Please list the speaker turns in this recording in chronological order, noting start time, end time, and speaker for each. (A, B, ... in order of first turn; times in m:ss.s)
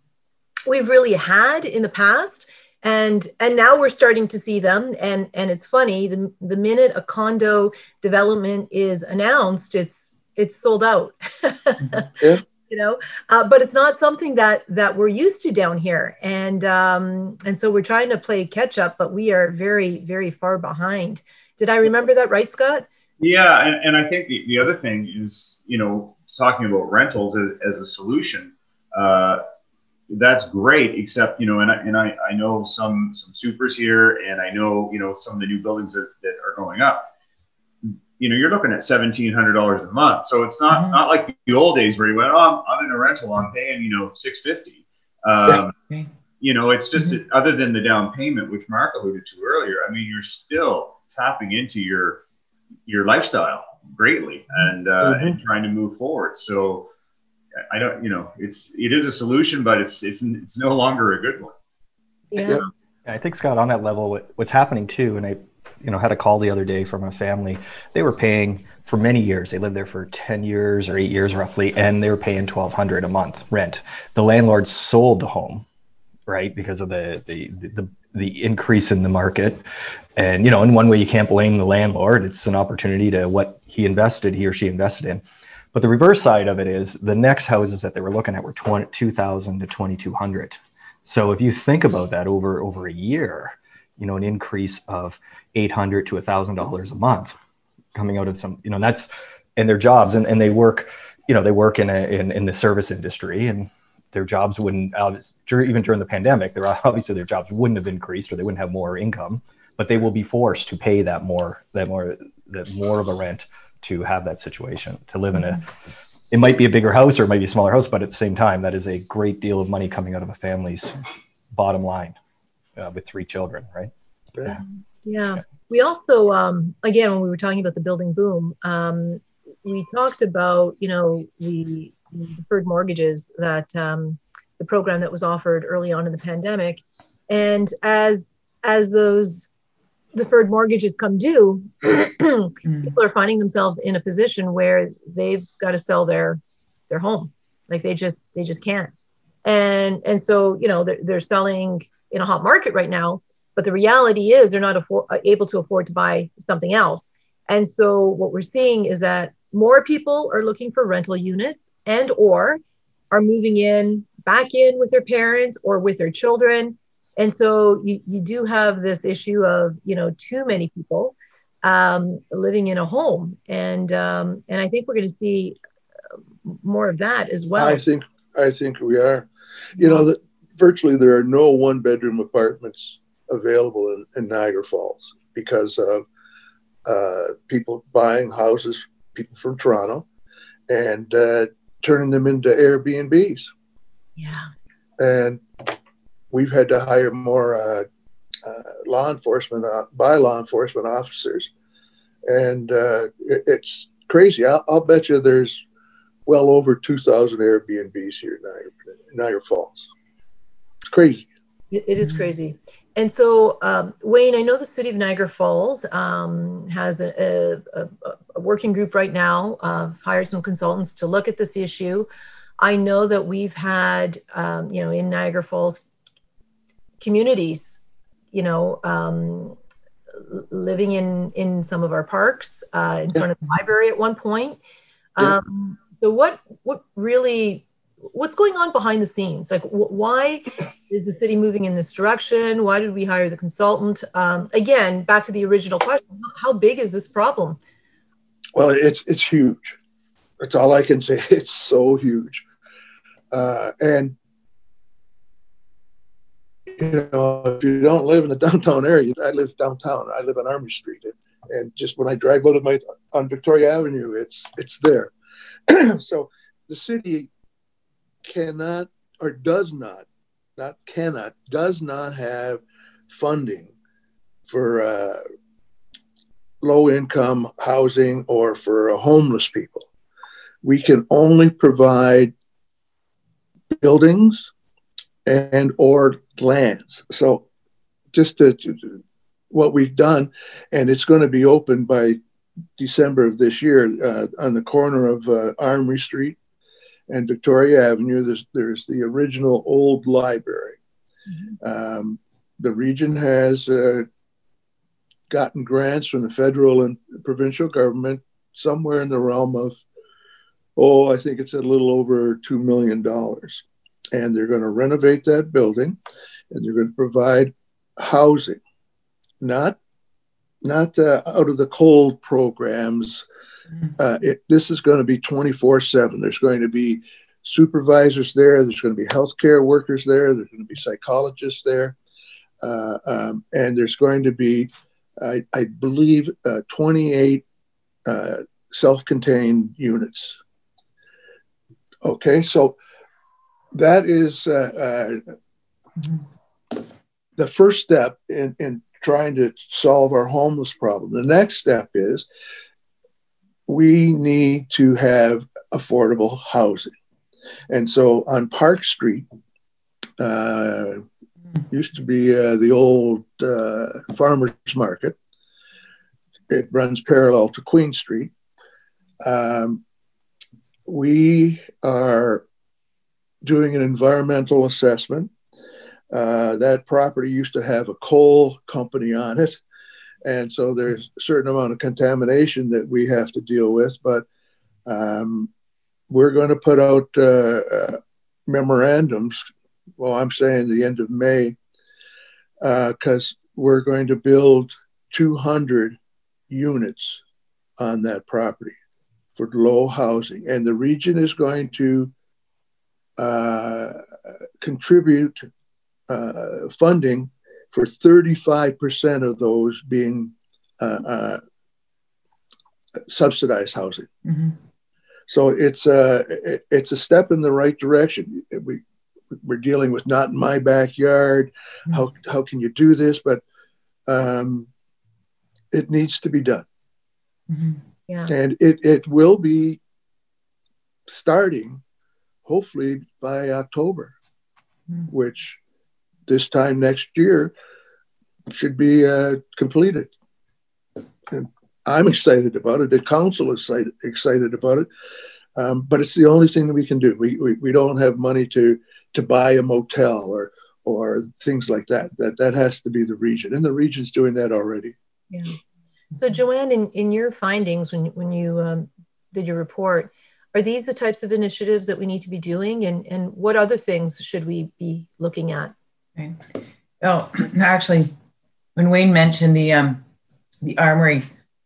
0:00.7-0:22.9 A
0:23.2-0:29.4 B
0:30.1-0:37.1 B
0:38.2-0:45.8 B
0:40.7-0:41.0 C
0:46.4-0:52.2 B
0:52.9-0:56.9 B
0:55.0-0:55.4 D
0:57.7-1:01.6 B
1:02.3-1:02.6 A
1:03.1-1:15.7 E
1:16.3-1:19.6 E
1:20.2-1:37.4 E
1:37.9-1:55.6 E
1:56.3-2:00.9 E
2:01.5-2:02.2 E
2:02.8-2:04.6 E
2:05.0-2:19.5 A
2:20.1-2:28.9 A
2:22.7-2:23.0 C
2:29.4-2:42.6 A
2:43.1-2:55.6 A
2:56.4-2:57.8 A
2:57.6-3:06.0 D
3:06.9-3:10.1 D
3:10.7-3:13.5 D
3:14.2-3:14.5 A
3:15.0-3:15.4 D
3:16.3-3:17.9 D
3:18.4-3:21.5 D
3:22.3-3:25.6 D
3:26.3-3:29.9 D
3:30.9-3:31.3 D
3:31.7-3:42.1 A
3:42.6-3:45.8 A
3:47.0-3:49.6 A
3:50.2-3:54.6 A
3:55.2-4:07.6 A
4:08.6-4:09.8 D
4:10.4-4:12.4 D
4:13.3-4:14.2 D
4:16.8-4:25.1 D
4:25.7-4:27.3 D
4:28.3-4:30.1 D
4:30.6-4:33.7 D
4:34.5-4:35.2 D
4:36.6-4:39.9 D
4:40.6-4:42.3 D
4:43.8-4:44.5 D
4:45.3-4:47.4 D
4:48.1-4:49.0 D
4:49.5-4:52.2 D
4:52.8-4:56.4 D
4:57.1-5:00.8 D
5:01.6-5:04.1 D
5:05.3-5:09.8 D
5:10.8-5:16.0 D
5:16.5-5:18.6 D
5:19.4-5:19.8 D
5:20.6-5:23.2 D
5:24.0-5:32.0 D
5:32.6-5:37.4 D
5:38.1-5:40.4 D
5:42.0-5:42.8 D
5:43.7-5:45.2 D
5:47.4-5:52.3 D
5:53.7-5:56.9 D
5:57.7-5:59.3 D
6:00.2-6:01.0 D
6:01.7-6:05.2 D
6:06.5-6:08.3 D
6:09.2-6:09.8 D
6:10.9-6:12.5 D
6:13.4-6:15.3 D
6:16.1-6:19.6 D
6:20.2-6:24.2 D
6:24.9-6:25.5 D
6:26.1-6:29.5 D
6:30.0-6:31.6 D
6:32.6-6:36.0 D
6:36.5-6:37.2 D
6:37.8-6:38.8 D
6:39.4-6:42.1 D
6:43.2-6:44.0 D
6:44.6-6:45.5 D
6:46.1-6:51.4 D
6:53.1-6:54.1 D
6:54.2-6:54.6 C
6:55.3-6:58.8 D
6:59.4-7:03.4 D
7:04.1-7:04.7 D
7:05.7-7:06.6 D
7:07.5-7:07.8 C
7:08.3-7:09.8 D
7:11.1-7:11.8 D
7:12.5-7:14.1 D
7:15.1-7:15.6 D
7:16.3-7:17.5 D
7:18.5-7:20.1 D
7:21.3-7:24.9 D
7:25.6-7:35.0 D
7:35.3-7:35.6 A
7:36.1-7:45.7 A
7:46.2-7:48.1 C
7:48.8-7:50.0 C
7:50.6-7:51.3 C